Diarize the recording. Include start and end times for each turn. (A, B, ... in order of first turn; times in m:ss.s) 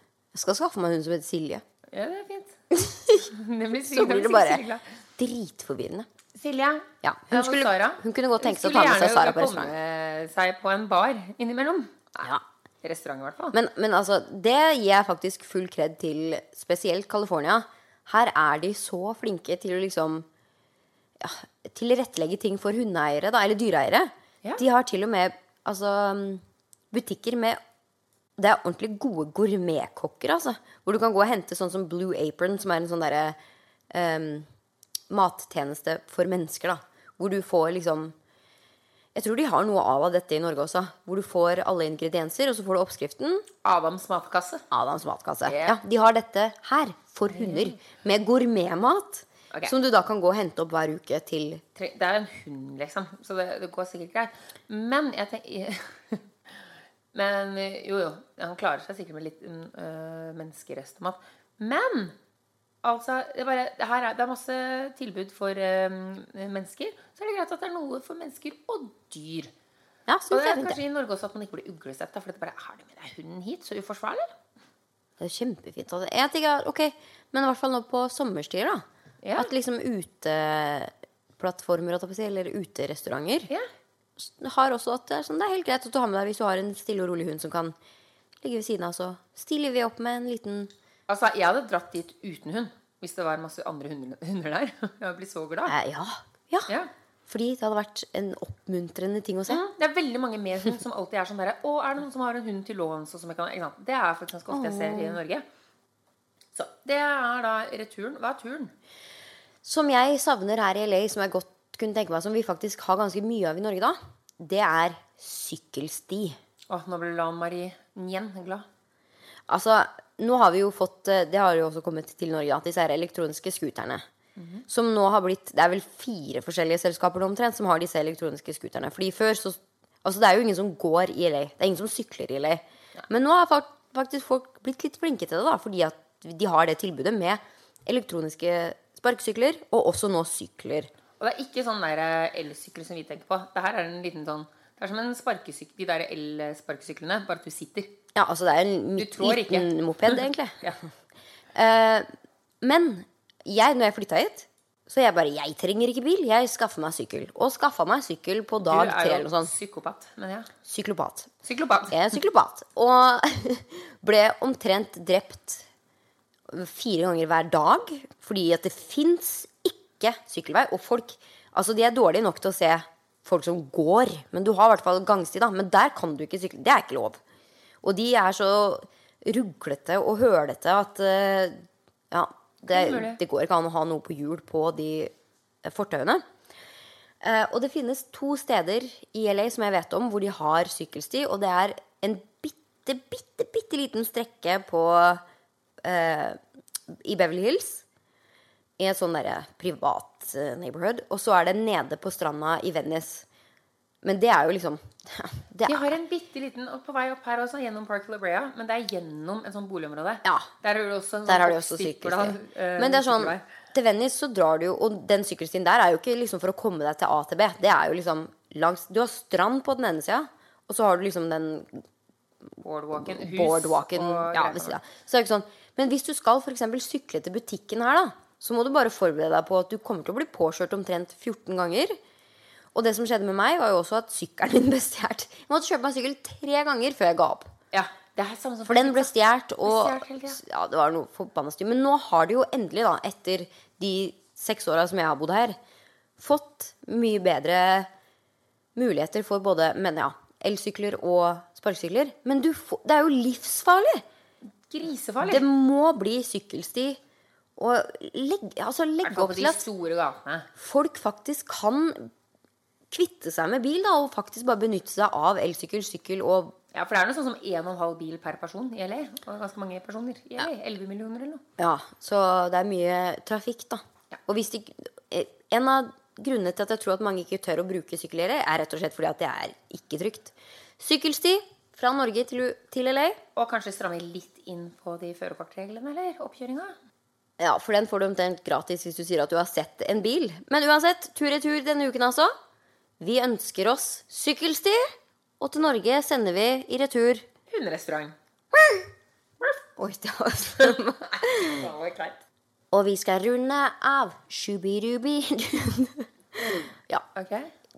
0:00.3-0:01.6 A
0:01.9-0:04.8 B
0:02.7-0:03.3 A
0:03.9-0:04.6 A
0:05.2-0:06.1 A
0:06.3-0:13.6 B
0:07.0-0:09.7 A
0:13.5-0:20.2 A
0:21.2-0:27.6 A
0:28.4-0:33.4 A
0:33.9-0:34.5 A
0:35.1-0:38.1 A
0:39.1-0:43.5 A
0:43.6-0:44.6 B
0:44.7-0:51.6 A
0:45.4-0:45.8 B
0:47.3-0:47.8 B
0:51.7-0:56.3 B
0:57.1-1:02.2 B
1:02.8-1:09.5 B
1:10.1-1:10.8 A
1:10.3-1:14.3 B
1:15.2-1:18.8 A
1:19.2-1:19.5 B
1:19.4-1:23.5 A
1:24.2-1:27.7 A
1:28.4-1:30.7 A
1:31.1-1:35.7 B
1:35.7-1:36.7 A
1:37.3-1:39.6 A
1:39.5-1:45.4 B
1:44.5-1:45.2 A
1:46.5-1:48.7 B
1:49.6-1:56.4 A
1:56.7-1:58.6 B
1:59.5-2:04.0 A
2:04.4-2:04.6 B
2:04.7-2:20.9 A
2:21.2-2:28.0 B
2:28.1-2:30.6 A
2:29.0-2:30.8 B
2:31.5-2:32.1 A
2:32.6-2:39.5 A
2:38.6-2:40.5 B
2:40.6-2:41.3 A
2:41.4-2:42.2 B
2:41.9-2:45.6 A
2:46.5-2:57.2 A
2:57.8-3:05.1 A
3:02.7-3:03.2 B
3:05.6-3:06.2 A
3:07.2-3:15.2 A
3:15.8-3:17.8 A
3:18.8-3:23.2 A
3:24.0-3:26.0 A
3:25.6-3:33.4 B
3:30.2-3:30.5 A
3:31.3-3:41.8 A
3:42.6-3:44.8 B
3:43.0-3:52.0 A
3:52.7-3:57.5 A
3:57.7-4:00.4 B
3:58.6-4:05.6 A
4:06.2-4:07.9 A
4:08.8-4:14.0 A
4:14.7-4:15.4 B
4:15.2-4:17.0 A
4:17.6-4:19.7 A
4:19.0-4:20.5 B
4:20.6-4:22.1 A
4:22.9-4:26.6 A
4:26.7-4:31.4 B
4:31.6-4:43.2 A
4:43.3-4:46.7 B
4:47.4-4:52.3 A
4:53.0-4:54.9 A
4:55.4-4:57.2 A
4:57.5-4:58.1 B
4:58.5-4:58.9 A
4:59.8-5:01.7 A
5:00.6-5:02.2 B
5:02.7-5:07.0 A
5:07.1-5:07.5 B